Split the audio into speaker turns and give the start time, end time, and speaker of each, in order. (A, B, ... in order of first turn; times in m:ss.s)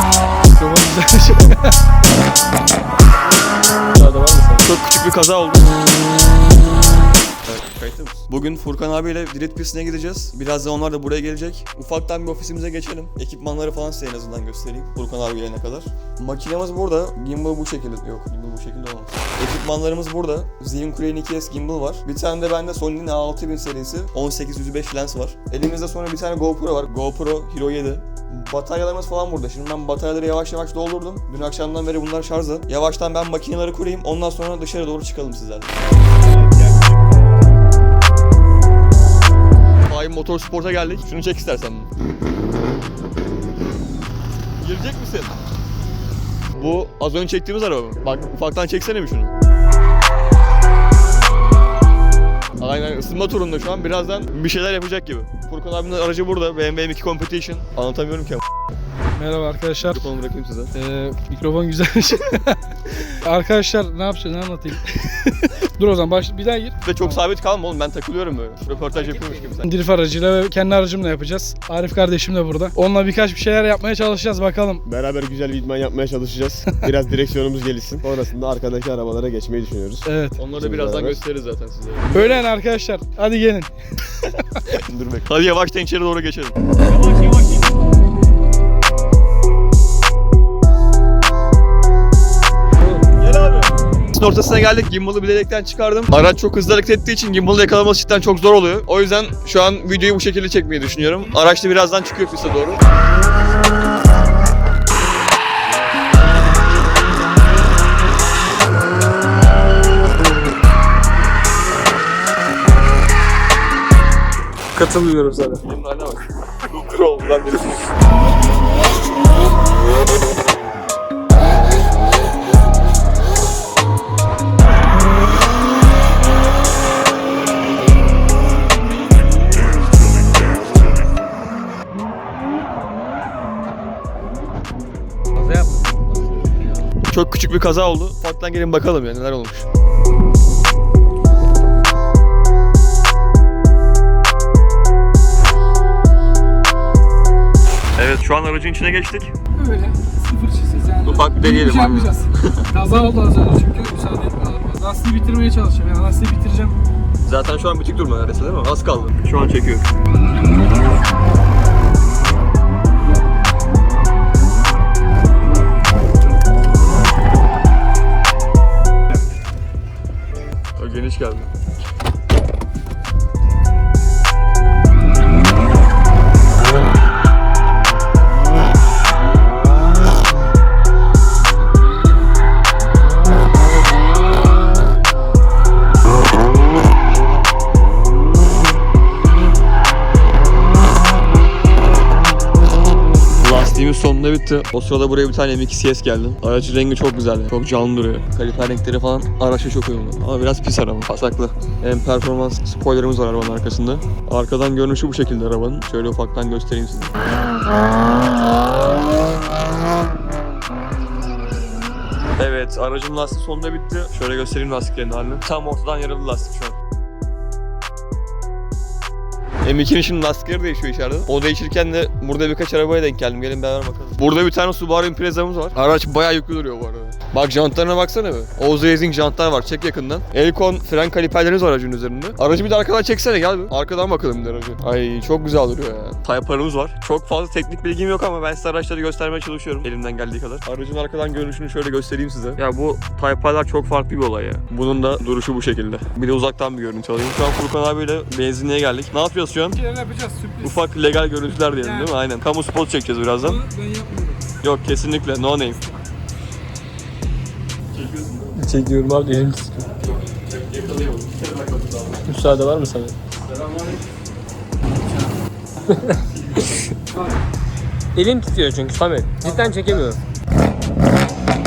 0:00.4-0:01.8 A
0:03.9-0:04.6 B
0:04.6-0:05.7 C
0:07.5-0:35.8 C
0:36.3-0:37.0 C
0:39.8-0:41.9 C
0:44.6-0:45.3 C
0:46.5-0:49.3 C
0:52.6-0:58.4 C
0:59.1-1:00.1 A
0:59.8-1:00.7 C
1:00.8-1:07.2 A
1:06.8-1:09.7 C
1:09.6-1:14.8 A
1:14.8-1:21.2 D
1:20.0-1:20.4 A
1:20.4-1:22.4 C
1:22.1-1:23.7 A
1:24.7-1:27.7 C
1:33.1-1:42.8 C
1:54.7-1:55.6 B
1:55.6-1:57.8 C
2:15.4-2:15.8 A
2:17.0-2:19.7 C
2:28.0-2:29.3 C
2:29.5-2:36.8 A
2:31.0-2:32.7 C
2:37.2-2:39.9 C
2:50.8-2:51.5 C
3:13.4-3:27.2 C
3:32.4-3:36.8 C
3:39.6-4:09.8 C
4:09.7-4:10.8 A
4:10.6-4:13.6 C
4:11.8-4:12.1 A
4:13.4-4:14.5 A
4:14.6-4:15.8 C
4:17.9-4:18.6 C
4:18.6-4:19.9 B
4:19.8-4:22.3 C
4:22.2-4:23.1 B
4:23.3-4:24.0 C
4:25.9-4:26.2 B
4:26.3-4:26.9 C
4:28.1-4:30.2 B